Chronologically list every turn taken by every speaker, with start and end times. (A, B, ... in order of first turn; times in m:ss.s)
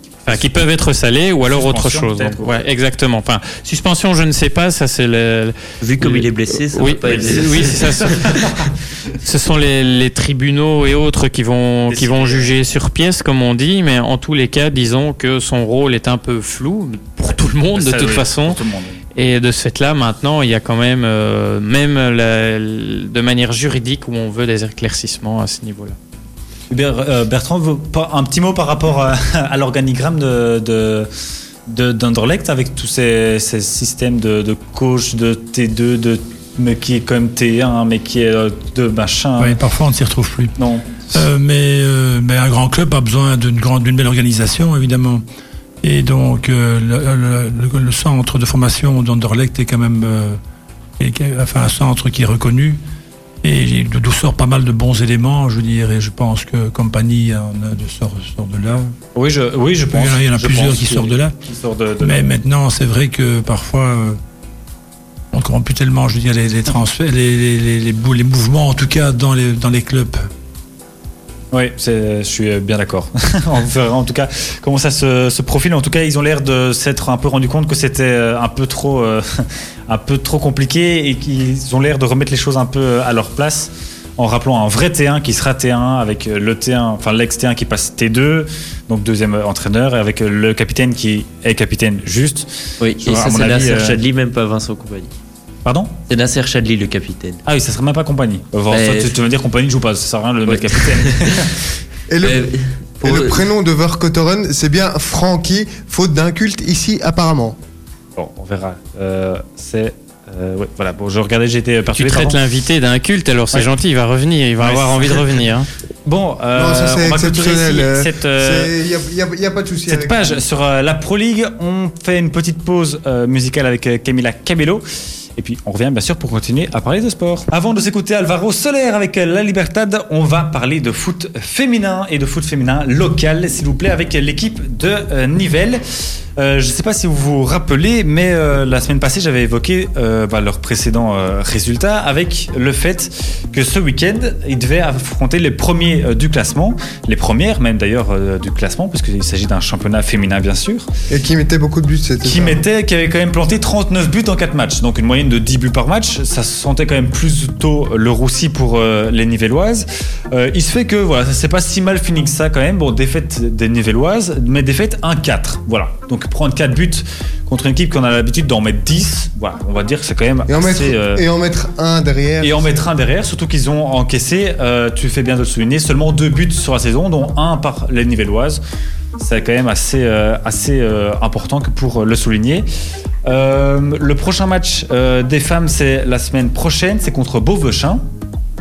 0:00.3-0:00.6 A
0:00.3-0:08.4 B
0:01.4-0:02.7 A
0:05.8-0:08.4 C
0:07.1-0:08.7 A
0:09.2-0:18.6 B
0:11.9-0:12.5 A
0:17.7-0:19.0 A
0:19.2-0:26.0 B
0:26.7-0:31.1 A
0:31.7-0:39.6 A
0:39.4-0:40.6 D
0:40.6-0:41.1 A
0:41.1-0:45.2 D
0:45.8-0:50.4 D
0:51.0-0:52.8 D
0:53.4-0:59.0 D
0:59.2-1:02.3 A
0:59.9-1:01.4 D
1:02.0-1:04.2 D
1:05.3-1:10.3 D
1:11.5-1:32.5 A
1:32.8-1:35.1 C
1:33.0-1:34.0 A
1:35.6-1:35.9 A
1:36.1-1:37.4 C
1:37.5-1:41.5 A
1:38.7-1:39.2 C
1:40.5-1:41.5 C
1:42.1-1:42.5 E
1:42.2-1:43.4 C
1:43.0-1:47.6 E
1:48.2-1:52.4 A
1:51.9-1:55.7 B
1:54.6-1:55.5 A
1:56.0-1:58.7 A
1:56.5-2:00.4 E
1:59.9-2:04.8 A
2:05.4-2:15.8 A
2:16.4-2:30.9 A
2:31.1-2:32.6 E
2:32.2-2:51.2 A
2:50.5-2:52.8 E
2:52.4-2:58.6 A
2:59.2-3:02.7 A
3:03.2-3:08.1 A